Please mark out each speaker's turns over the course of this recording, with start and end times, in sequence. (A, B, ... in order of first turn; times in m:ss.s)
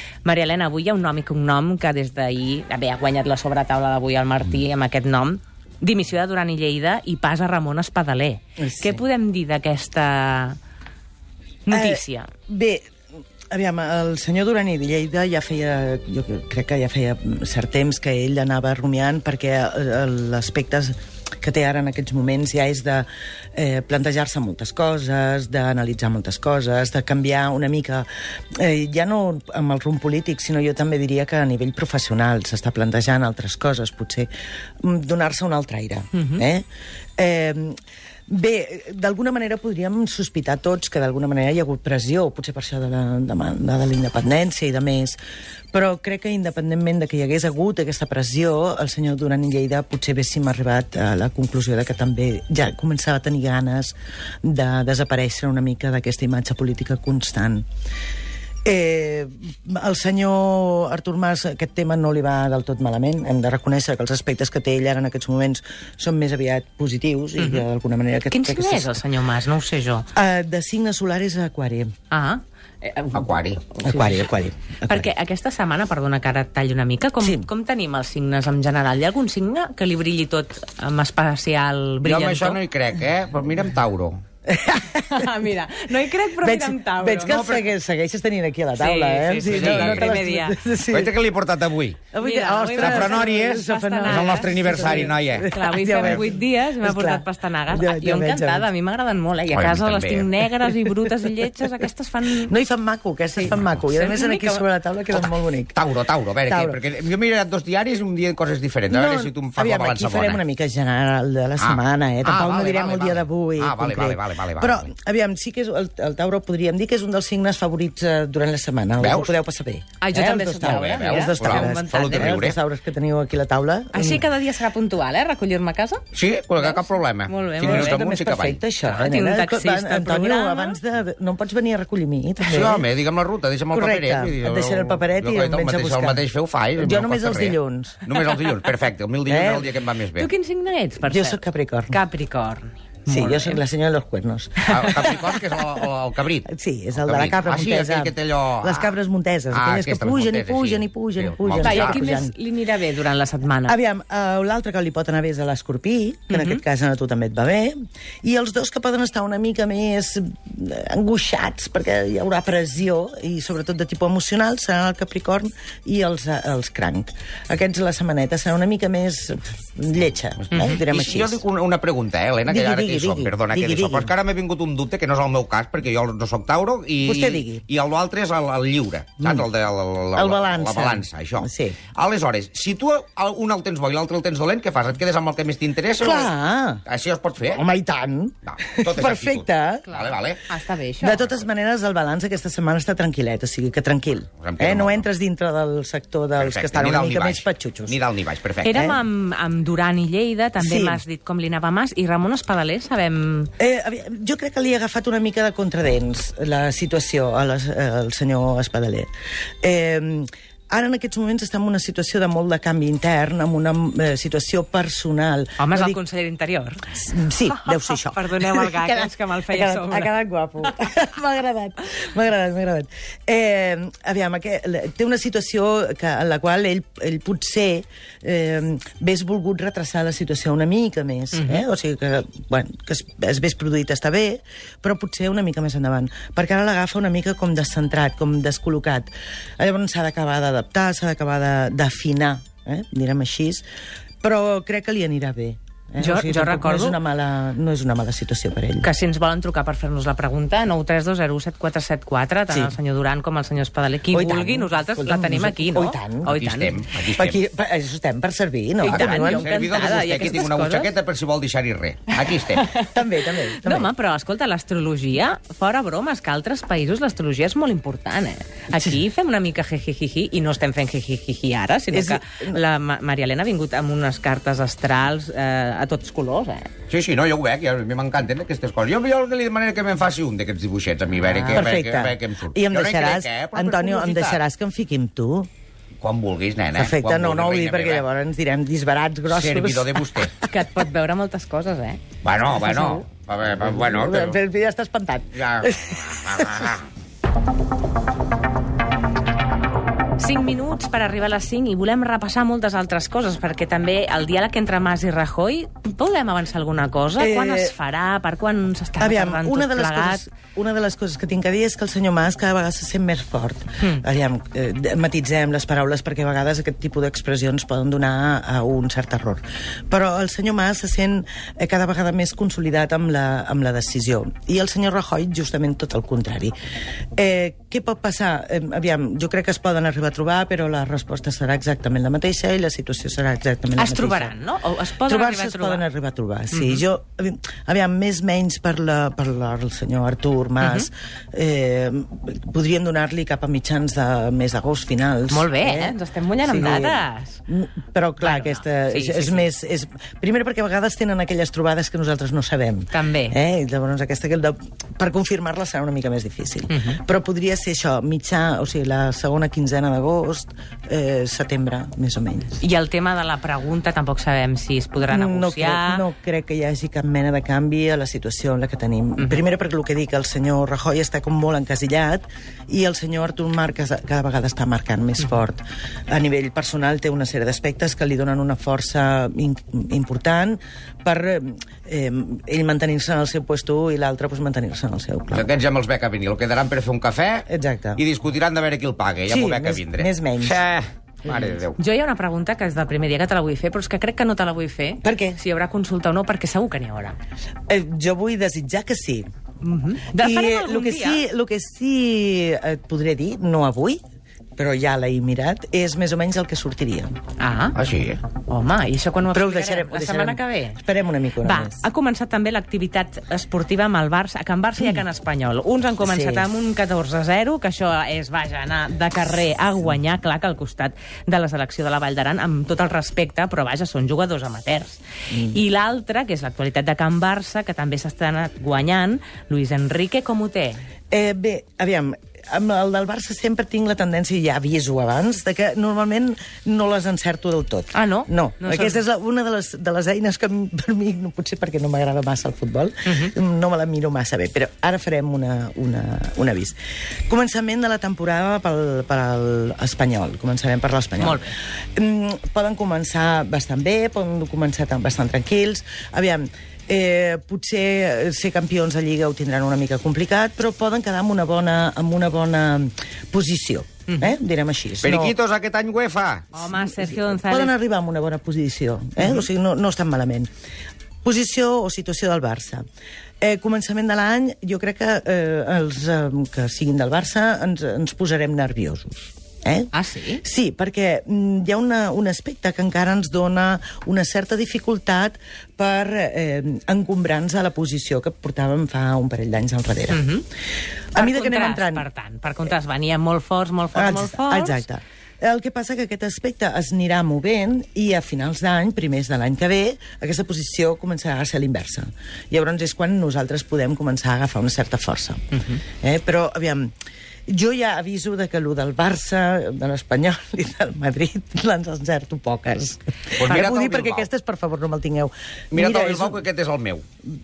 0:00.2-0:10.6 A
0:08.6-0:09.0 B
0:11.6-0:12.3 A
0:11.7-0:12.9 B
0:13.5-0:34.3 B
0:34.8-0:36.6 B
0:36.1-0:36.4 A
0:37.2-0:37.8 B
0:38.3-0:45.2 B
0:45.7-0:57.6 B
0:58.6-1:09.0 B
1:07.4-1:07.6 A
1:08.3-1:10.1 A
1:10.1-1:11.9 B
1:12.1-1:14.3 A
1:13.1-1:13.6 C
1:13.8-1:15.1 B
1:14.8-1:22.6 A
1:17.2-1:17.5 B
1:22.0-1:24.2 C
1:24.4-1:25.4 B
1:24.9-1:27.6 A
1:26.3-1:31.1 B
1:27.2-1:27.6 C
1:28.8-1:30.6 A
1:29.4-1:30.2 C
1:30.9-1:32.1 C
1:32.1-1:38.7 B
1:32.2-1:42.5 A
1:32.7-1:35.5 C
1:39.5-1:40.3 C
1:40.7-1:41.1 B
1:42.4-1:45.8 B
1:43.4-1:44.7 A
1:45.1-1:50.4 C
1:46.4-1:46.8 B
1:48.9-2:04.2 B
1:51.6-1:54.9 C
1:59.0-1:59.3 C
2:00.0-2:02.4 A
2:00.6-2:02.6 C
2:03.9-2:06.0 A
2:06.1-2:08.6 C
2:06.6-2:08.0 A
2:07.6-2:12.9 B
2:08.8-2:10.8 A
2:12.4-2:20.3 C
2:13.7-2:16.2 B
2:16.8-2:18.0 B
2:19.3-2:19.7 B
2:20.2-2:23.6 A
2:21.0-2:22.0 B
2:23.1-2:25.3 B
2:24.7-2:25.2 A
2:24.7-2:28.9 C
2:26.4-2:32.3 B
2:29.5-2:32.1 C
2:31.6-2:33.8 A
2:33.7-2:51.4 B
2:36.3-2:36.6 A
2:50.4-3:06.3 C
2:50.5-2:50.8 A
2:52.4-2:54.1 B
2:57.0-2:57.6 B
2:59.2-2:59.4 B
3:00.2-3:01.8 B
3:06.0-3:06.8 B
3:06.8-3:07.6 C
3:07.4-3:09.9 B
3:08.4-3:10.4 C
3:09.9-3:11.2 A
3:11.0-3:18.0 B
3:14.4-3:15.0 C
3:16.4-3:18.9 C
3:18.6-3:23.5 A
3:18.7-3:19.0 B
3:20.6-3:21.0 B
3:23.6-3:29.1 B
3:29.6-3:36.0 B
3:35.6-3:40.1 A
3:36.9-4:03.6 B
3:51.3-3:51.6 A
4:04.2-4:08.9 B
4:06.0-4:07.0 A
4:08.8-4:16.8 A
4:14.1-4:16.4 B
4:16.3-4:17.4 C
4:17.0-4:19.5 B
4:18.8-4:20.9 A
4:18.9-4:22.7 C
4:22.5-4:36.7 A
4:22.8-4:23.9 B
4:28.7-4:29.0 B
4:31.9-4:32.6 B
4:36.9-4:44.4 C
4:41.2-4:41.7 A
4:41.5-4:45.5 B
4:46.0-4:48.0 C
4:46.7-4:50.3 B
4:49.3-4:50.3 C
4:50.4-4:52.0 A
4:52.2-4:54.4 C
4:52.5-4:53.0 A
4:53.6-4:56.8 B
4:55.4-4:56.8 C
5:00.2-5:10.2 A
5:07.2-5:07.7 B
5:09.0-5:26.5 B
5:27.2-5:34.3 B
5:33.8-5:35.8 A
5:35.0-6:02.6 B
5:36.5-5:36.8 A
5:40.6-5:40.9 A
5:45.3-5:47.4 A
5:48.2-5:49.5 A
5:52.9-5:53.4 A
5:56.7-5:57.0 A
6:02.6-6:06.0 A
6:05.1-6:25.5 B
6:25.3-6:31.8 C
6:27.5-6:28.0 B
6:29.3-6:30.6 B
6:31.8-6:37.2 A
6:35.0-6:35.4 B
6:37.7-6:39.2 B
6:39.6-6:41.2 A
6:40.2-6:44.0 B
6:44.6-6:47.1 B
6:47.4-6:47.8 A
6:47.7-6:48.2 C
6:48.4-6:50.8 A
6:49.3-6:51.8 B
6:51.4-7:10.8 A
6:56.0-6:56.5 B
7:05.3-7:05.6 B
7:11.1-7:26.8 B
7:17.9-7:19.0 A
7:23.1-7:23.3 A
7:27.3-7:45.3 B
7:31.2-7:31.5 A
7:45.0-7:46.5 C
7:46.5-7:47.7 A
7:46.6-7:50.5 B
7:49.2-7:49.5 A
7:51.2-7:52.8 B
7:53.4-8:10.2 B
7:59.9-8:00.4 A
8:10.1-8:10.4 A
8:11.1-8:12.0 B
8:11.1-8:14.8 A
8:13.9-8:26.9 B
8:27.5-8:36.4 B
8:33.4-8:34.3 C
8:35.7-8:37.0 C